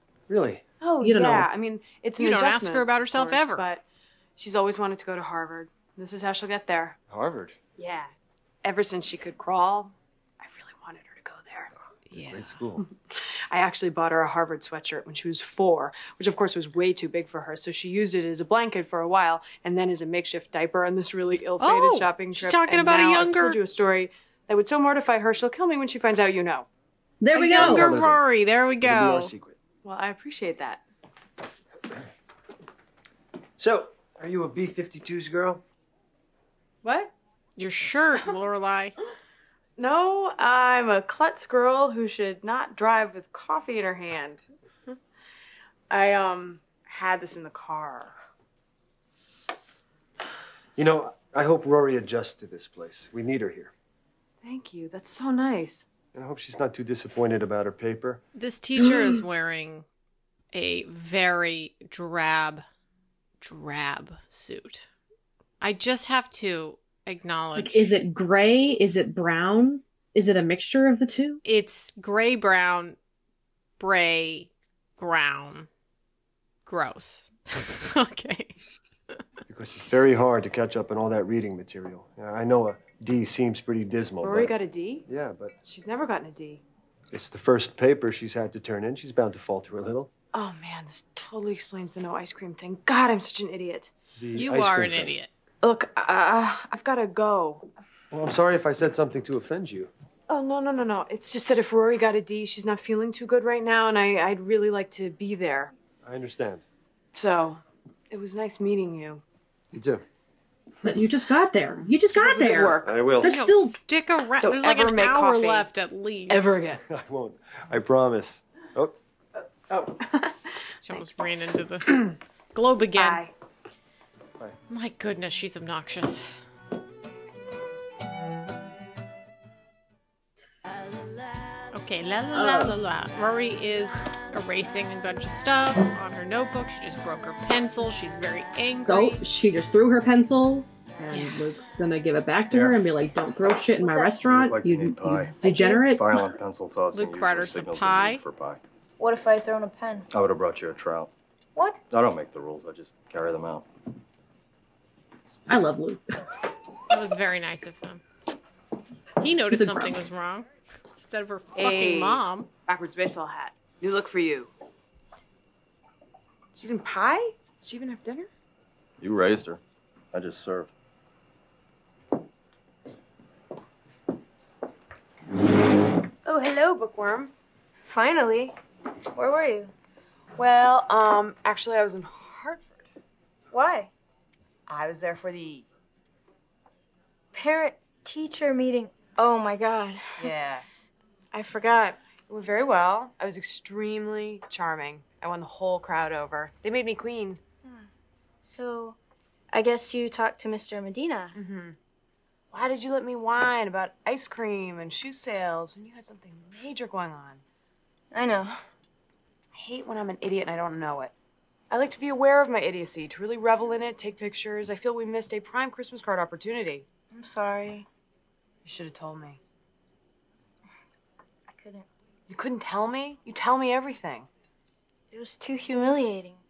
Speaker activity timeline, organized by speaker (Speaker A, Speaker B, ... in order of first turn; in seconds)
Speaker A: 0.3-0.6, 7.1-7.6, 12.1-12.8, 27.6-28.2, 28.8-29.6, 33.6-35.6, 50.8-53.7, 56.1-58.2, 79.5-84.5, 85.1-85.5, 87.1-90.1, 94.2-95.1, 98.1-99.9, 106.0-106.6, 109.7-110.0, 112.8-113.3, 116.9-119.0
Speaker B: 0.8-3.8, 4.4-7.0, 7.8-8.1, 8.6-11.7, 13.5-26.7, 27.4-27.7, 29.8-30.8, 36.8-37.1, 39.8-44.9, 45.9-48.1, 54.4-55.9, 84.2-85.1, 85.6-86.6, 90.3-93.9, 95.6-97.7, 100.3-105.7, 107.2-109.2, 112.1-113.1, 114.4-115.7, 116.3-116.8, 119.7-120.5, 123.0-123.3, 161.6-164.5, 166.5-168.3, 176.2-177.3, 180.4-182.9, 184.7-185.7, 190.2-190.7, 192.3-197.4, 201.3-201.8, 202.5-207.4, 209.5-211.1, 211.7-216.9, 218.7-219.4, 222.3-224.3
Speaker C: 1.0-1.5, 27.2-27.9, 67.5-71.4, 110.8-113.8, 132.3-132.8, 138.9-146.3, 155.5-156.0, 159.5-160.0
Speaker D: 2.2-3.7, 12.1-12.4, 21.6-23.6, 27.4-29.3, 37.6-39.0, 58.4-59.9, 60.5-62.6, 63.4-64.9, 65.6-68.0, 71.5-73.0, 73.8-75.7, 76.7-78.5, 94.3-95.3, 113.2-116.5, 120.8-123.2, 124.7-126.3, 131.7-139.2, 141.1-141.4, 146.9-148.2, 156.9-158.0, 159.2-162.5
Speaker E: 142.5-142.8, 144.2-148.6, 150.1-151.1, 151.9-153.7, 169.0-169.6, 170.1-170.7
Speaker F: 143.8-144.2, 145.4-145.8, 149.0-150.1, 177.8-178.6, 179.1-179.7, 183.5-183.9, 187.3-190.3, 191.3-192.0, 198.4-199.0, 199.5-201.3, 208.1-208.6, 217.1-217.9, 221.5-221.9, 225.1-226.4